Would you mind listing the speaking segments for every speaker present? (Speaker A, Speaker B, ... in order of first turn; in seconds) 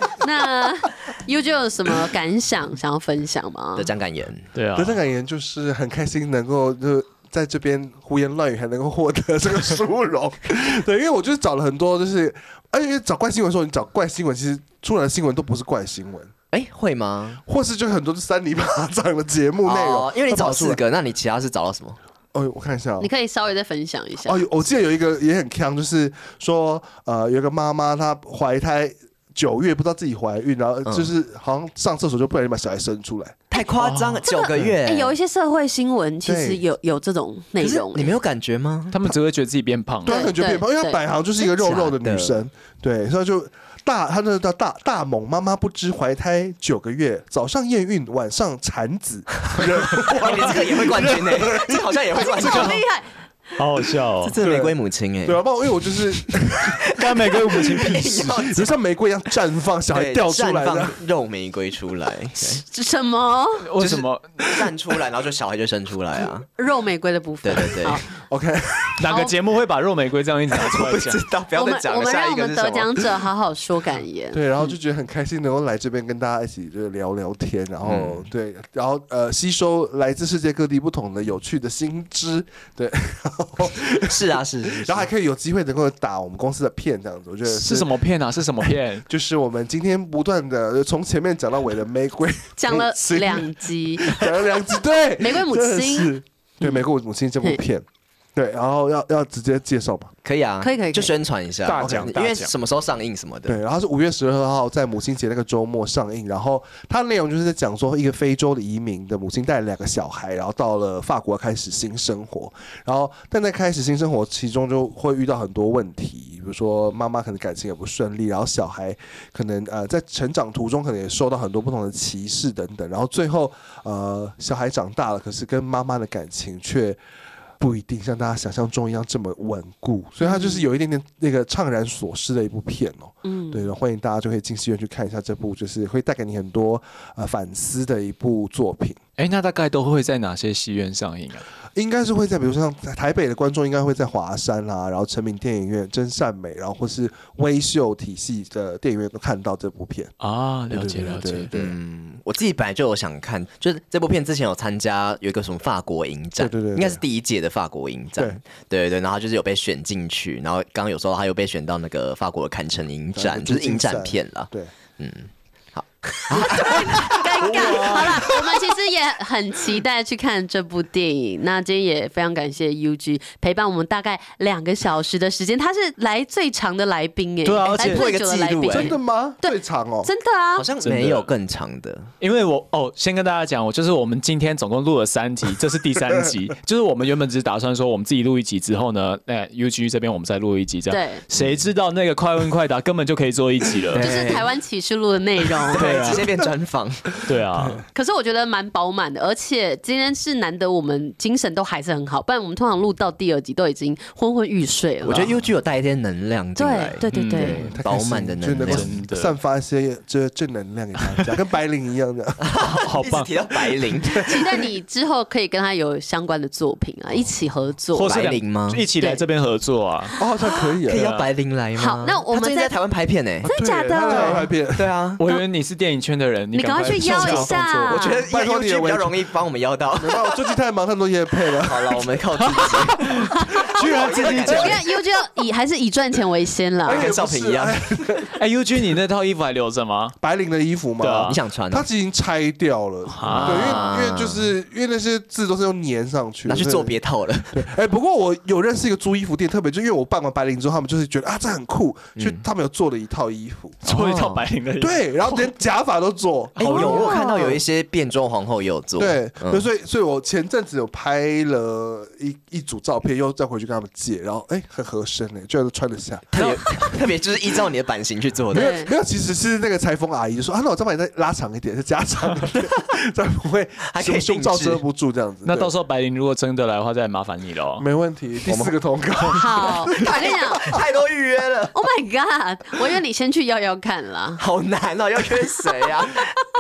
Speaker A: 0.2-3.9, 23.0-24.4, 34.2-38.2, 40.1-41.0, 52.1-53.1, 62.5-63.7, 66.6-68.0, 69.1-69.3, 71.5-74.4, 92.6-94.2, 95.2-96.8, 100.6-101.1, 130.2-130.7, 133.2-133.7, 166.3-180.7, 190.9-191.2, 193.9-196.1, 197.9-205.3, 206.6-207.6, 214.2-218.2, 219.0-219.2, 221.8-222.8, 223.4-224.5, 226.5-228.2, 234.4-237.1, 256.6-257.5, 268.5-268.9, 279.3-280.6, 281.7-284.4
Speaker B: 3.8-4.5, 16.5-17.4, 19.6-22.0, 30.8-31.1, 33.5-35.1, 37.6-39.0, 41.4-42.4, 49.6-52.8, 54.2-55.4, 56.6-58.8, 59.9-62.6, 63.8-66.5, 67.4-68.0, 70.5-73.1, 77.8-78.3, 84.0-85.1, 100.2-103.6, 151.5-168.3, 177.6-179.0, 180.5-182.1, 193.9-194.5, 195.7-197.2, 205.0-208.9, 212.4-214.4, 218.1-218.8, 220.8-223.5, 224.7-225.2, 227.1-230.4, 231.6-234.8, 236.9-237.8, 241.3-241.9, 243.3-244.5, 246.4-247.7, 252.2-252.4, 253.9-254.4, 256.6-259.6, 266.3-268.7, 273.9-274.8, 278.4-278.8, 279.9-281.7, 284.4-286.3
Speaker C: 4.5-5.0, 33.8-34.2, 38.9-40.3, 52.4-52.8, 53.5-54.4, 56.9-58.3, 63.6-64.5, 69.0-71.2, 87.5-89.0, 101.6-102.5, 139.2-141.4, 150.2-151.5, 167.7-168.0, 177.4-178.1, 180.8-181.3, 182.2-194.1, 195.7-196.3, 197.2-197.8, 207.1-207.8, 208.6-209.3, 212.6-213.3, 217.9-220.1, 220.9-221.3, 224.1-224.4, 225.2-228.0, 232.4-234.8, 238.3-240.2, 241.0-241.4, 243.1-243.9, 253.8-255.5, 275.4-277.9
Speaker D: 4.8-16.3, 17.4-20.8, 22.3-23.1, 24.2-33.4, 36.2-36.6, 40.0-52.2, 54.4-56.9, 58.0-61.0, 68.1-69.0, 74.3-87.9, 89.1-100.1, 101.8-102.1, 103.5-127.0, 127.6-139.0, 141.7-150.1, 150.7-151.8, 156.4-157.0, 163.1-164.7, 166.8-168.7, 178.7-180.1, 207.5-212.4, 214.0-214.4, 220.2-221.1, 223.5-224.8, 227.0-227.5, 228.3-229.2, 230.0-232.1, 233.8-234.4, 236.8-238.3, 240.2-247.0, 247.5-253.8, 254.8-257.6, 259.0-266.4, 268.5-275.7, 277.8-280.1